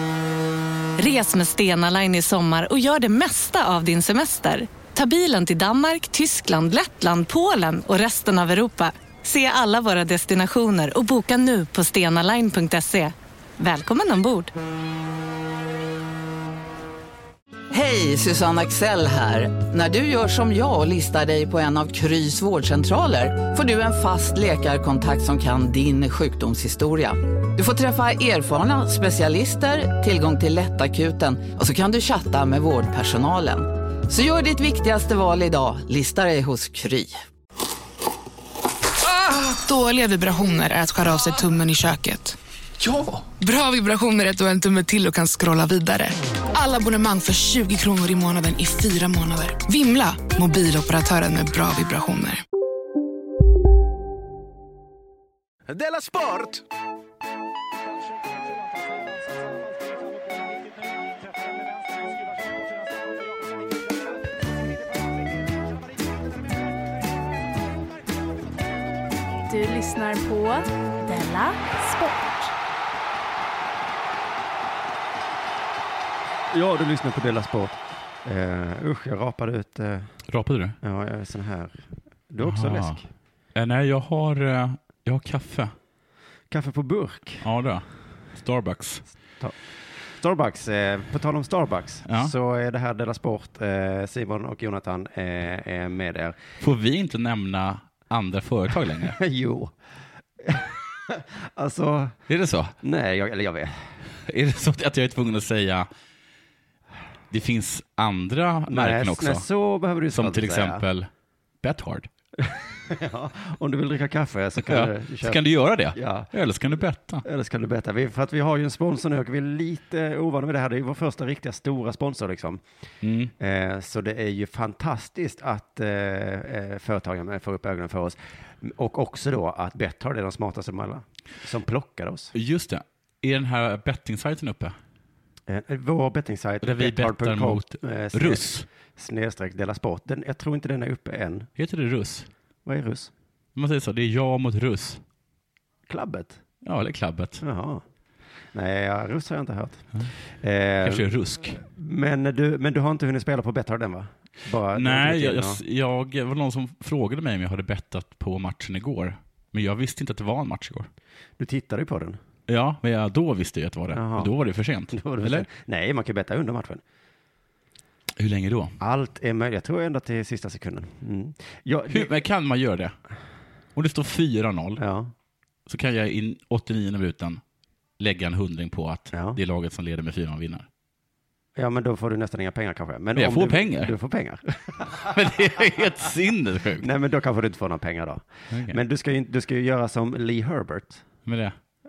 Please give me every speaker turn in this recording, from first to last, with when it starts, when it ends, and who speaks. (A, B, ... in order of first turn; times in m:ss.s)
0:01.0-0:14.5 A
0:17.7-0:37.2 B
0:39.3-0:42.4 C
0:43.4-0:52.4 C
1:09.4-1:12.5 D
1:16.5-1:20.1 E
1:20.3-1:20.8 F
1:20.8-1:21.7 E
1:22.3-1:23.1 E
1:22.4-1:23.0 F
1:23.6-1:25.7 F
1:26.5-1:27.4 E
1:27.4-1:29.0 F
1:30.2-1:36.4 E
1:32.1-1:32.3 F
1:36.6-1:39.2 F
1:39.0-1:39.7 E
1:40.4-1:42.2 E
1:42.3-1:42.8 F
1:42.8-1:43.7 E
1:44.3-1:45.9 F
1:47.3-1:49.4 F
1:48.7-1:50.8 E
1:50.1-1:51.1 F
1:51.6-1:52.1 F
1:52.4-1:55.4 E
1:54.7-1:57.2 F
1:55.9-1:56.3 E
1:57.2-2:02.6 E
2:03.0-2:03.3 F
2:03.4-2:12.3 E
2:12.4-2:14.8 F
2:15.5-2:21.5 E
2:16.6-2:18.7 F
2:21.6-2:22.3 F
2:22.7-2:23.1 E
2:23.6-2:25.0 F
2:25.9-2:26.4 E
2:26.6-2:27.4 F
2:27.4-2:27.8 E
2:28.5-2:29.9 E
2:30.4-2:31.1 E
2:30.8-2:31.6 F
2:31.6-2:35.6 E
2:34.7-2:40.9 F
2:41.4-2:42.2 E
2:42.5-2:45.5 F
2:43.9-2:44.3 E
2:44.9-2:46.8 E
2:48.2-2:48.8 F
2:48.8-2:52.2 E
2:51.9-2:53.0 F
2:53.8-2:54.8 F
2:54.8-2:55.1 E
2:55.7-2:57.4 F
2:58.0-3:00.7 F
2:59.1-2:59.4 E
3:01.6-3:05.2 E
3:03.2-3:03.9 F
3:05.0-3:06.9 F
3:06.8-3:11.0 E
3:08.5-3:08.8 F
3:11.3-3:11.6 F